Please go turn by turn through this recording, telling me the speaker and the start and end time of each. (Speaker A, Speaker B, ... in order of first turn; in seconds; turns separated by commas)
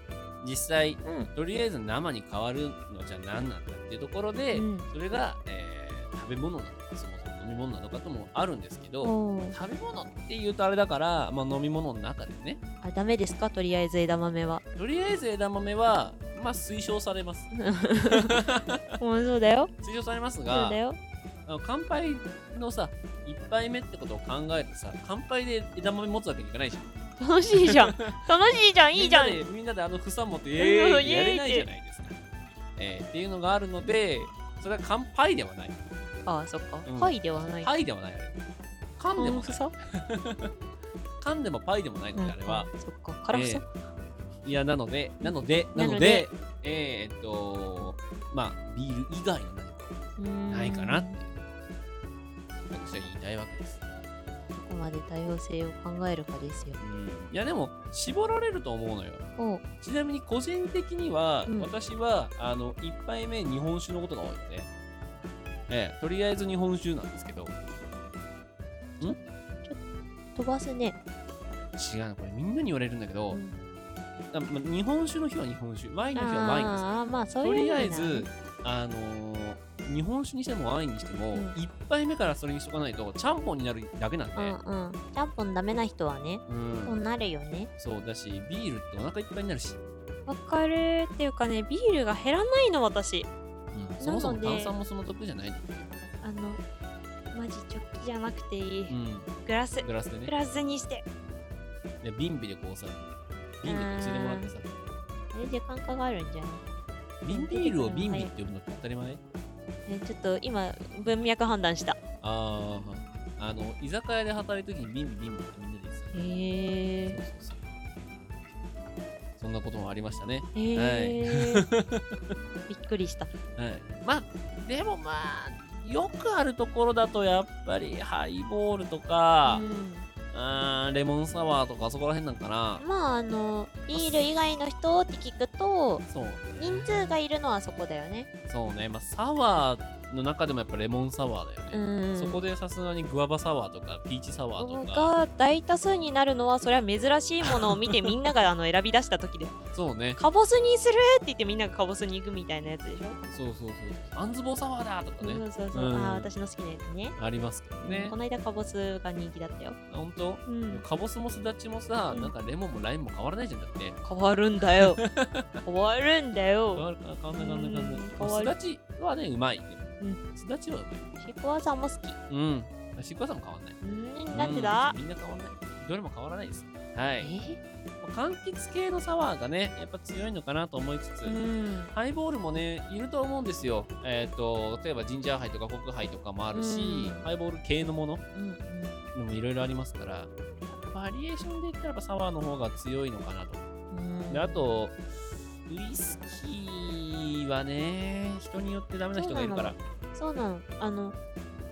Speaker A: 0.4-12.6, Speaker B: 1.0-1.3, Speaker B: 4.5-4.9, Speaker B: 9.0-9.6, Speaker B: 12.8-14.6, Speaker A: 14.8-17.5, Speaker B: 17.5-18.4, Speaker A: 18.1-18.8, Speaker B: 19.0-19.7, Speaker A: 19.8-20.8, Speaker B: 20.5-21.0, Speaker A: 21.5-26.9, Speaker B: 27.2-29.4, Speaker A: 27.5-28.2, Speaker A: 28.9-32.2, Speaker B: 30.6-31.7, Speaker A: 32.8-35.8, Speaker B: 36.3-37.7, Speaker A: 36.9-38.4, Speaker A: 39.0-40.5, Speaker B: 39.2-39.7, Speaker A: 41.2-42.7, Speaker B: 42.2-43.7, Speaker A: 43.3-43.6, Speaker A: 44.4-50.0, Speaker B: 45.2-46.3, Speaker B: 50.2-51.2, Speaker A: 50.5-51.4, Speaker A: 52.7-53.8, Speaker B: 54.5-56.8, Speaker A: 56.8-59.3, Speaker B: 59.4-59.6, Speaker A: 59.8-64.7, Speaker A: 65.7-67.5, Speaker B: 69.0-69.8, Speaker B: 70.3-71.0, Speaker A: 71.8-73.4, Speaker B: 73.3-73.6, Speaker A: 74.3-76.9, Speaker B: 76.2-78.3, Speaker A: 77.4-84.6, Speaker B: 84.4-87.7, Speaker A: 86.5-87.0, Speaker A: 87.8-89.8, Speaker B: 90.3-93.3, Speaker A: 93.7-95.9, Speaker B: 94.0-94.7, Speaker B: 96.2-96.6, Speaker B: 97.3-101.0, Speaker A: 98.9-100.3, Speaker A: 102.0-103.0, Speaker A: 103.6-104.7, Speaker B: 103.7-104.5, Speaker B: 105.3-106.6, Speaker A: 107.2-109.2, Speaker B: 107.3-108.3, Speaker B: 109.9-112.0, Speaker A: 112.2-116.2, Speaker B: 116.1-117.2, Speaker A: 117.0-117.7, Speaker A: 119.4-122.0, Speaker B: 120.5-121.7, Speaker B: 122.7-123.3, Speaker A: 123.6-129.7, Speaker B: 129.4-130.1, Speaker A: 130.3-132.8, Speaker B: 132.8-136.1, Speaker A: 133.9-134.3, Speaker A: 136.1-137.2, Speaker B: 136.6-138.3, Speaker A: 138.5-145.1, Speaker B: 141.7-142.4, Speaker B: 144.6-149.6, Speaker A: 147.5-148.1, Speaker A: 149.7-150.2, Speaker B: 150.2-153.2, Speaker A: 153.3-156.3, Speaker B: 155.2-157.2, Speaker A: 157.2-158.2, Speaker B: 157.8-159.8, Speaker A: 159.9-164.0, Speaker B: 160.5-160.8, Speaker B: 164.0-165.0, Speaker A: 164.8-165.6, Speaker B: 165.7-166.8, Speaker A: 166.7-171.1, Speaker B: 167.4-168.5, Speaker B: 171.2-172.2, Speaker A: 172.3-173.8, Speaker B: 173.8-175.0, Speaker A: 174.3-177.3, Speaker B: 177.2-177.6, Speaker A: 178.0-181.4, Speaker B: 181.2-181.9, Speaker A: 181.9-188.2, Speaker B: 186.5-187.2, Speaker B: 188.3-189.0, Speaker A: 189.1-193.6, Speaker B: 193.9-194.6, Speaker A: 194.3-195.0, Speaker A: 195.7-199.8, Speaker B: 199.2-201.2